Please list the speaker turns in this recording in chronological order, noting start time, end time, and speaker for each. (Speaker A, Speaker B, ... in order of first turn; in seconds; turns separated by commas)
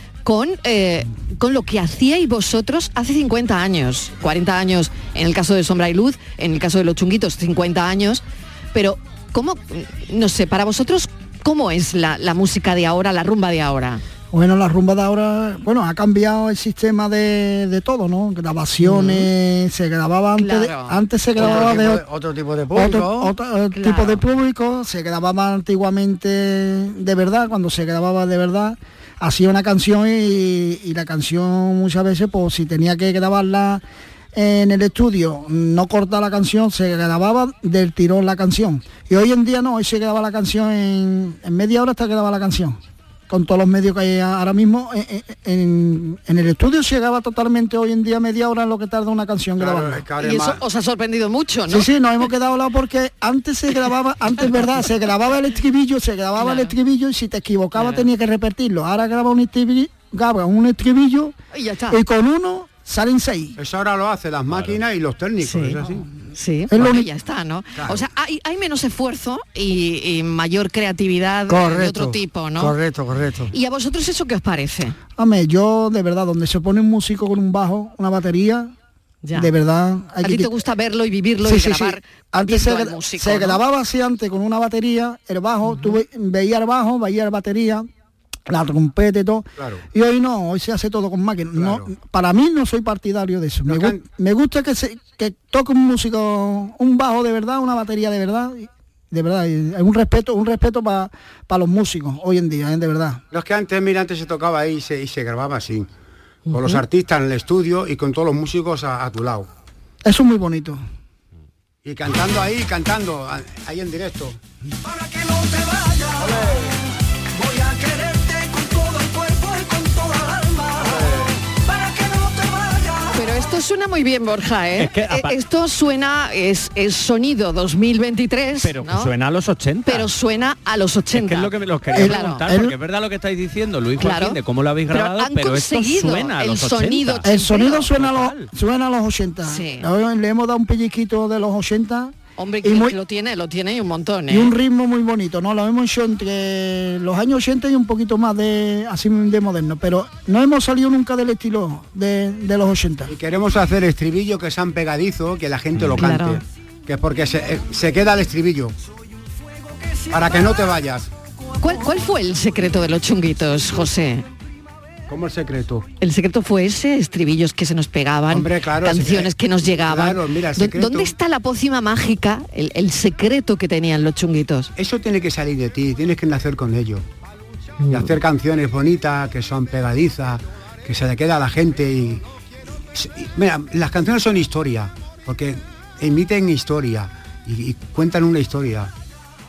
Speaker A: 0.2-14.0, Speaker B: 14.3-22.0, Speaker A: 18.8-19.3, Speaker A: 20.4-21.8, Speaker C: 21.4-23.3, Speaker D: 21.4-22.0, Speaker B: 22.7-33.8, Speaker A: 23.7-24.2, Speaker B: 34.3-50.0, Speaker D: 49.6-50.6, Speaker A: 50.2-51.9, Speaker B: 51.7-61.3, Speaker A: 56.4-56.7, Speaker A: 57.8-58.1, Speaker A: 61.5-62.0, Speaker B: 61.9-63.6, Speaker D: 63.6-66.1, Speaker E: 64.5-64.8, Speaker A: 65.4-72.8, Speaker B: 66.7-67.1, Speaker D: 67.8-68.0, Speaker C: 71.5-73.5, Speaker A: 73.5-75.0, Speaker B: 75.2-78.7, Speaker A: 79.2-79.5, Speaker B: 79.3-80.5, Speaker A: 80.2-83.6, Speaker B: 81.4-87.9, Speaker B: 88.5-103.2, Speaker D: 89.6-89.8, Speaker D: 91.5-91.9, Speaker D: 93.6-94.0, Speaker D: 103.3-105.9, Speaker D: 106.5-109.5, Speaker B: 110.0-110.8, Speaker D: 111.8-114.4, Speaker F: 114.8-116.4, Speaker D: 116.2-116.7, Speaker F: 117.3-123.4, Speaker D: 120.8-121.3, Speaker A: 123.1-129.1, Speaker E: 124.8-125.3, Speaker E: 128.6-130.1, Speaker A: 129.8-132.4, Speaker E: 131.1-137.3, Speaker B: 131.9-132.7, Speaker A: 134.0-134.4, Speaker A: 134.9-138.1, Speaker B: 137.2-143.0, Speaker E: 137.9-138.4, Speaker A: 139.5-139.9, Speaker A: 142.4-144.5, Speaker B: 144.3-153.1, Speaker D: 153.1-158.7, Speaker A: 155.9-156.4, Speaker F: 159.6-160.4, Speaker D: 160.1-161.1, Speaker A: 161.6-164.2, Speaker D: 165.1-165.8, Speaker A: 166.0-174.7, Speaker D: 168.3-171.1, Speaker D: 174.8-177.1, Speaker A: 177.8-178.1, Speaker D: 177.9-182.2, Speaker D: 182.9-188.9